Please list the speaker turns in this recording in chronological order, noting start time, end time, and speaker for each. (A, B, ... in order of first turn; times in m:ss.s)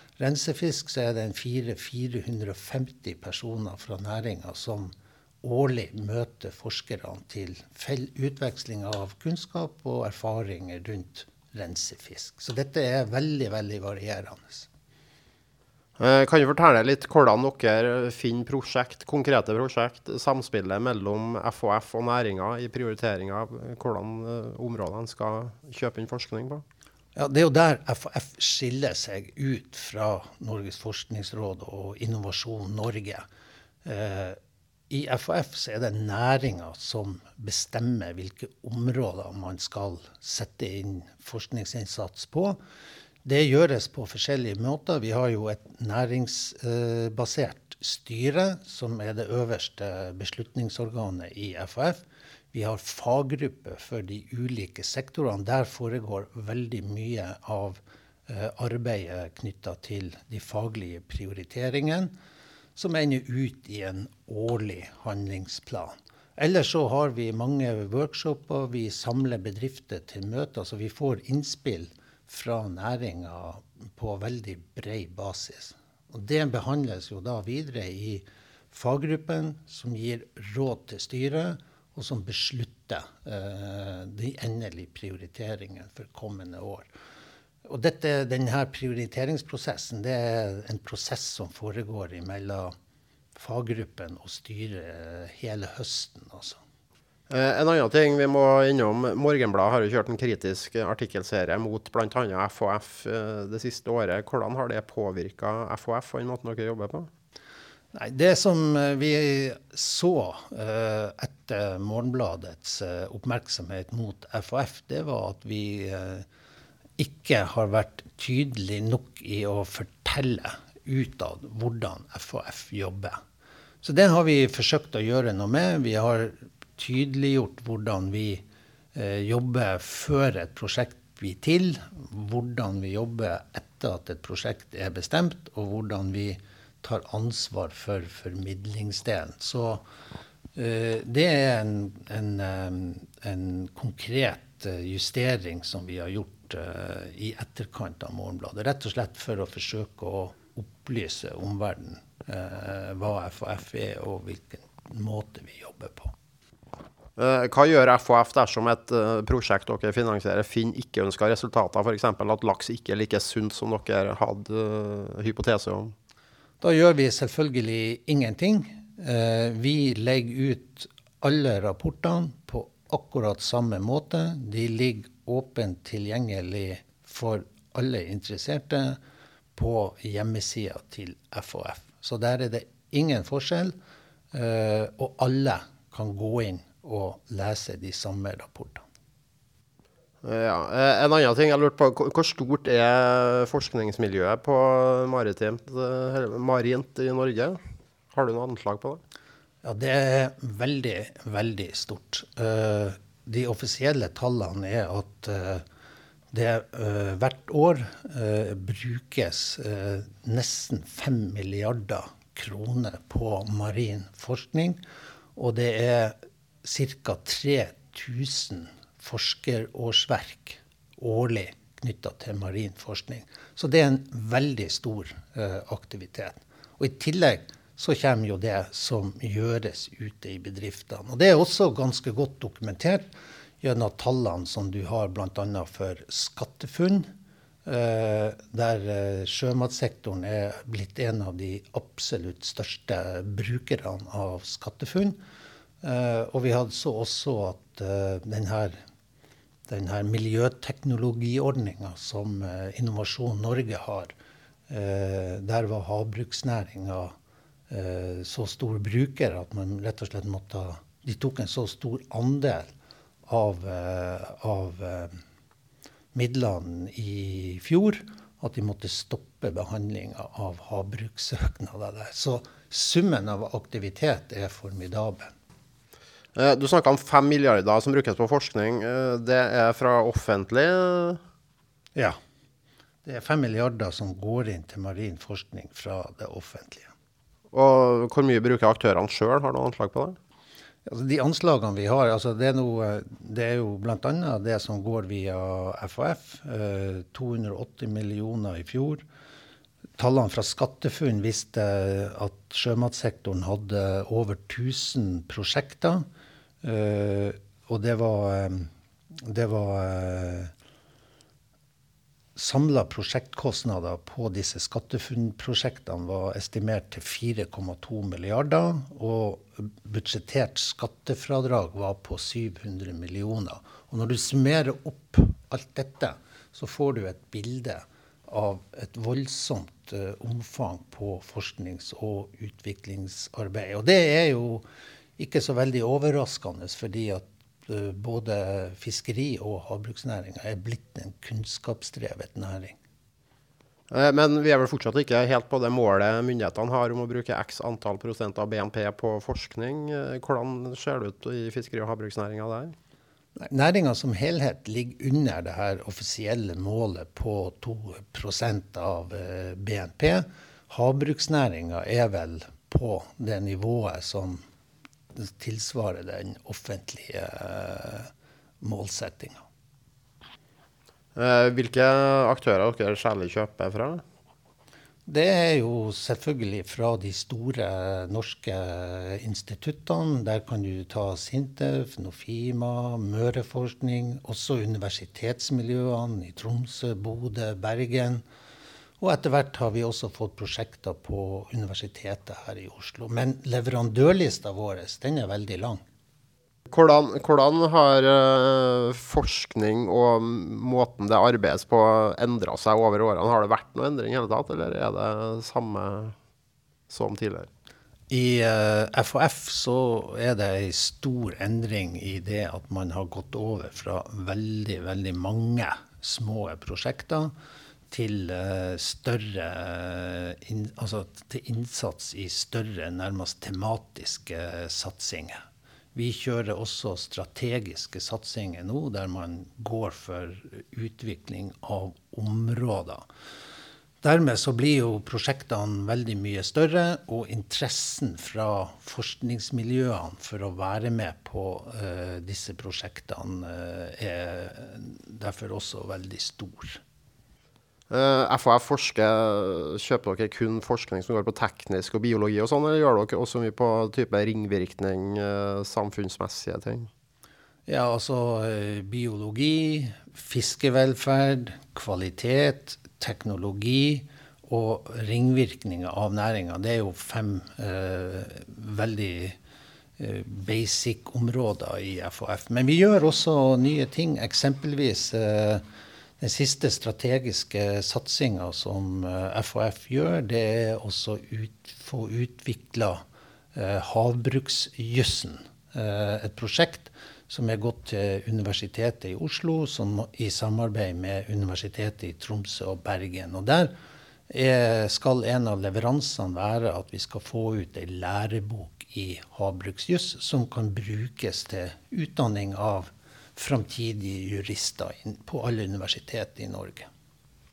0:00.2-0:14.7 A
0:16.0-0:26.6 B
0:27.1-0:33.2 A
0:33.8-0:34.4 A
0:34.9-0:42.6 A
0:43.2-1:02.1 A
1:02.8-1:26.9 A
1:27.6-1:32.7 A
1:33.4-1:36.6 A
1:37.3-1:47.1 B
1:47.9-1:56.2 A
1:57.0-2:03.2 A
2:03.8-2:19.8 A
2:20.6-2:36.1 A
2:37.2-2:45.9 B
2:46.6-2:59.0 A
2:59.6-3:03.8 A
3:04.3-3:08.8 A
3:10.2-3:17.6 B
3:18.1-3:19.0 B
3:19.6-3:25.6 A
3:26.3-3:34.8 A
3:35.4-3:53.1 A
3:53.6-3:57.1 A
3:57.6-4:05.2 A
4:05.8-4:08.8 A
4:09.7-4:14.1 A
4:14.7-4:17.1 A
4:17.7-4:22.7 A
4:23.3-4:25.2 A
4:26.1-4:35.3 A
4:36.4-4:41.2 B
4:43.0-4:46.9 A
4:47.5-4:50.2 B
4:50.9-4:59.0 A
5:00.0-5:06.0 A
5:06.6-5:10.5 A
5:12.4-5:34.6 A
5:35.2-5:42.8 A
5:43.9-5:52.8 B
5:53.4-6:04.4 A
6:05.1-6:08.1 A
6:08.6-6:09.4 A
6:11.2-6:14.0 B
6:15.1-6:28.2 A
6:29.0-6:35.8 A
6:36.7-6:46.1 B
6:46.9-6:47.5 B
6:48.1-6:57.3 A
6:57.9-7:05.4 A
7:05.9-7:13.0 A
7:14.0-7:26.8 A
7:27.9-7:36.9 B
7:37.7-7:49.4 A
7:50.0-7:55.6 A
7:56.2-8:03.0 A
8:03.5-8:13.7 A
8:14.3-8:26.9 A